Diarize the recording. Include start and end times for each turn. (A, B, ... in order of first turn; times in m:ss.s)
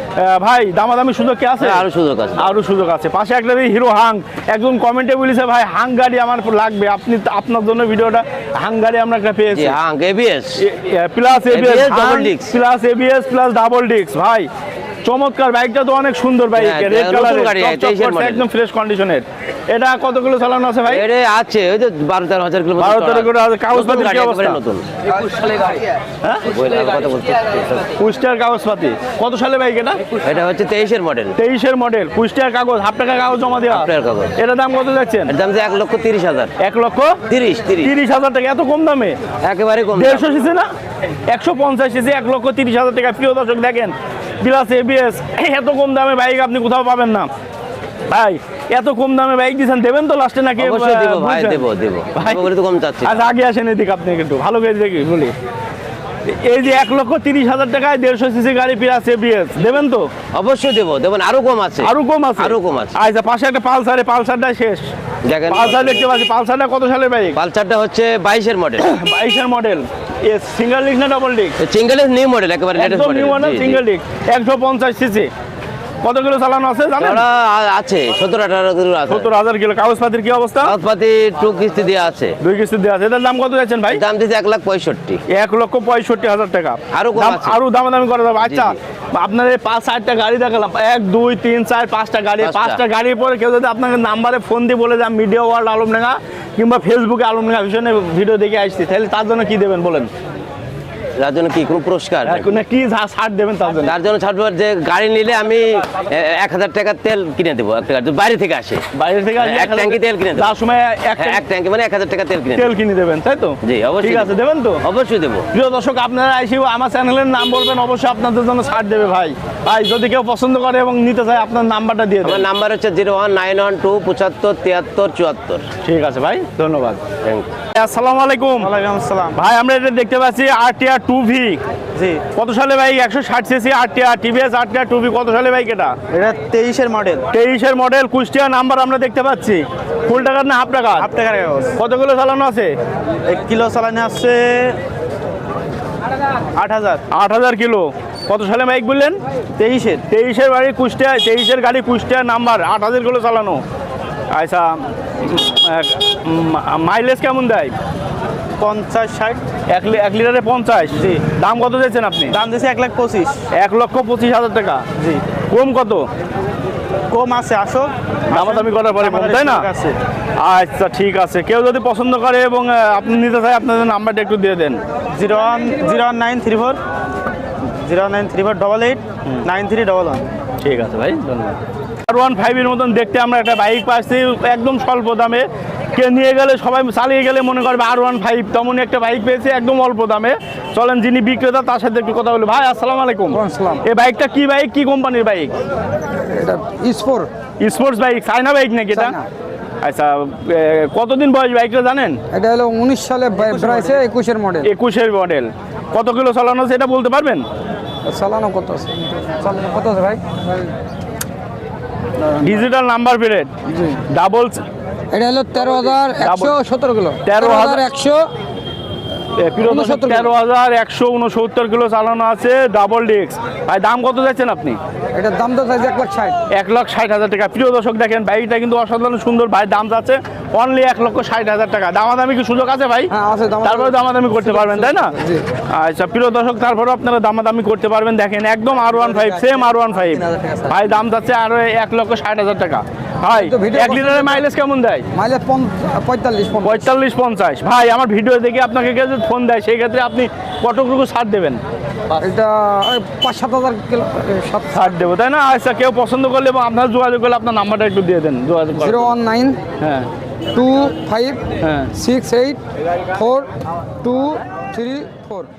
0:00.2-0:01.8 A
0:01.6-0:02.5 B
0:02.4-0:09.8 A
0:09.5-0:10.6 B
0:10.6-0:14.5 A
0:11.5-0:12.5 B
0:15.0-0:21.1 A
0:16.5-0:18.4 B
0:20.8-0:24.9 B
0:22.8-0:24.6 A
0:26.5-0:27.9 B
0:28.0-0:30.0 A
0:30.2-0:31.3 B
0:31.4-0:35.3 A
0:33.7-0:34.4 B
0:35.3-0:36.5 B
0:36.6-0:37.2 A
0:37.3-0:37.9 B
0:37.8-0:39.2 A
0:39.4-0:40.3 B
0:40.0-0:40.7 A
0:41.3-0:47.3 A
0:48.1-0:52.5 A
0:50.6-0:53.2 B
0:53.0-0:55.3 A
0:56.3-1:00.1 A
1:00.3-1:03.0 B
1:01.8-1:04.9 A
1:05.2-1:06.1 B
1:05.5-1:07.4 A
1:07.4-1:08.9 B
1:08.8-1:11.6 A
1:11.6-1:13.8 B
1:12.7-1:15.3 A
1:16.0-1:17.2 A
1:17.0-1:19.3 B
1:19.1-1:20.7 A
1:20.6-1:22.4 B
1:22.4-1:24.0 A
1:23.9-1:25.2 B
1:25.3-1:40.1 A
1:26.9-1:27.6 B
1:28.4-1:28.7 B
1:32.4-1:32.8 B
1:41.2-1:42.6 B
1:42.2-1:44.0 A
1:43.8-1:48.8 B
1:48.9-1:51.4 A
1:49.4-1:50.5 B
1:51.2-1:52.7 B
1:52.6-1:54.8 A
1:53.6-1:55.4 B
1:55.5-2:02.5 A
2:02.2-2:05.6 B
2:05.8-2:07.0 A
2:07.2-2:07.5 B
2:07.7-2:08.7 A
2:08.6-2:09.4 C
2:09.3-2:11.6 A
2:11.9-2:12.2 C
2:12.3-2:16.0 A
2:16.1-2:17.2 C
2:17.3-2:21.1 A
2:21.0-2:21.7 C
2:21.8-2:22.7 A
2:23.2-2:24.8 C
2:26.6-2:27.0 C
2:27.1-2:29.2 A
2:29.6-2:30.0 C
2:30.1-2:33.6 A
2:34.3-2:37.7 A
2:38.6-2:39.4 C
2:39.7-2:42.4 A
2:41.0-2:41.2 C
2:42.3-2:43.4 C
2:43.6-2:44.8 A
2:45.5-2:46.0 A
2:47.1-2:50.0 C
2:48.3-2:49.7 A
2:50.4-2:54.8 A
2:55.1-2:56.8 C
2:57.7-3:00.3 C
3:00.6-3:15.5 A
3:13.3-3:13.8 D
3:16.2-3:17.3 D
3:17.6-3:19.2 A
3:18.9-3:19.2 D
3:19.8-3:22.2 A
3:22.3-3:24.7 D
3:23.4-3:24.0 A
3:24.6-3:27.4 A
3:28.1-3:30.7 D
3:32.2-3:32.6 D
3:32.4-3:33.5 A
3:33.7-3:34.0 D
3:34.1-3:34.6 A
3:35.1-3:38.2 D
3:36.2-3:36.6 A
3:37.2-3:37.9 A
3:39.4-3:44.8 A
3:39.6-3:40.3 D
3:45.2-3:46.3 D
3:46.5-3:53.1 A
3:53.1-3:55.4 D
3:53.6-3:55.1 A
3:55.7-4:05.0 A
4:03.3-4:04.5 D
4:05.1-4:06.9 D
4:06.6-4:11.6 A
4:12.2-4:14.9 D
4:14.7-4:19.1 A
4:18.8-4:19.6 D
4:19.8-4:20.1 A
4:20.5-4:21.4 D
4:21.6-4:21.9 A
4:21.9-4:22.6 D
4:23.1-4:23.5 D
4:24.0-4:25.5 D